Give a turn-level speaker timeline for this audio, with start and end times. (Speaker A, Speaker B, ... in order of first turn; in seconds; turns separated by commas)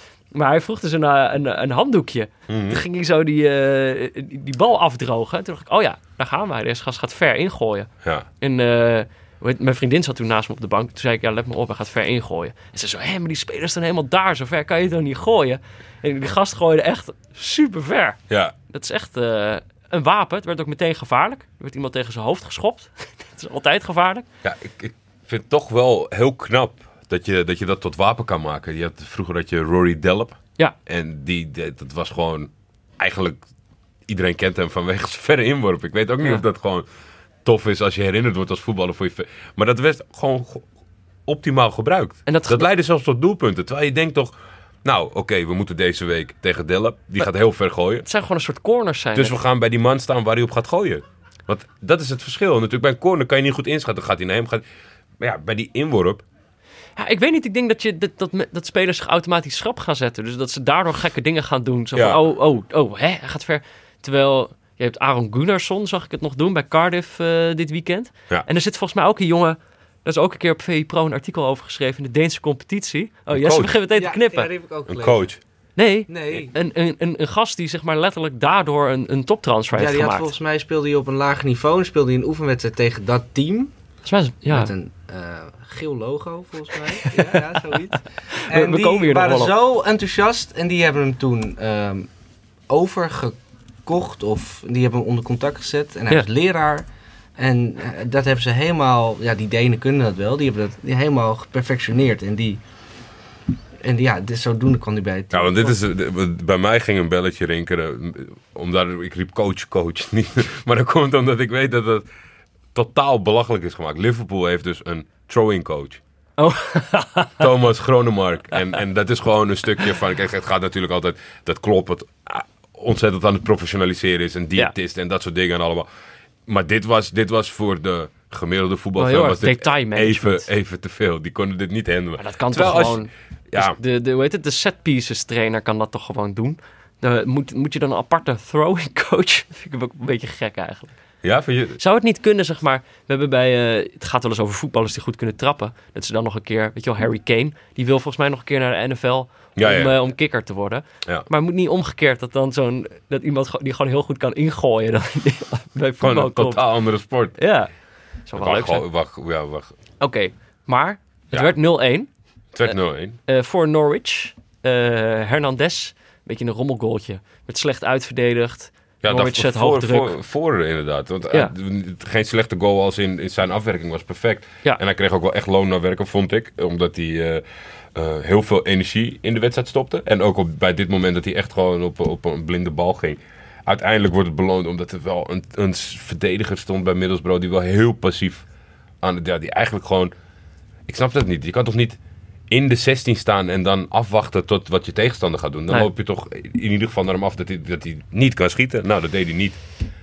Speaker A: 0.3-24.2, Speaker B: 2.5-2.8, Speaker B: 18.3-18.6, Speaker B: 24.4-33.4, Speaker B: 34.1-36.9, Speaker B: 37.5-40.7, Speaker B: 41.3-48.1, Speaker A: 42.3-42.7, Speaker A: 48.0-49.4, Speaker B: 49.1-54.6, Speaker B: 55.2-56.2, Speaker A: 57.0-74.5, Speaker B: 62.0-62.2, Speaker B: 73.3-73.8, Speaker C: 74.0-75.3, Speaker B: 74.9-75.4, Speaker A: 75.8-80.3, Speaker C: 76.1-76.5, Speaker C: 79.8-83.7, Speaker A: 84.0-84.7, Speaker C: 84.5-92.1, Speaker A: 86.9-87.8, Speaker A: 88.3-89.5, Speaker C: 92.7-102.6, Speaker C: 103.8-105.8, Speaker B: 105.3-112.1, Speaker B: 112.7-116.0, Speaker A: 116.4-117.4, Speaker B: 117.4-125.9, Speaker B: 126.5-133.8, Speaker A: 129.0-130.5, Speaker A: 132.2-140.9, Speaker B: 141.2-141.8, Speaker A: 141.8-156.6, Speaker B: 149.6-150.0, Speaker B: 156.0-157.4, Speaker A: 157.4-157.7, Speaker A: 158.3-158.9, Speaker B: 158.4-159.7, Speaker A: 160.0-162.1, Speaker B: 162.5-163.2, Speaker A: 163.3-170.2, Speaker B: 169.0-177.4, Speaker B: 177.9-188.5, Speaker B: 189.0-190.1, Speaker B: 190.9-192.0, Speaker B: 192.5-199.6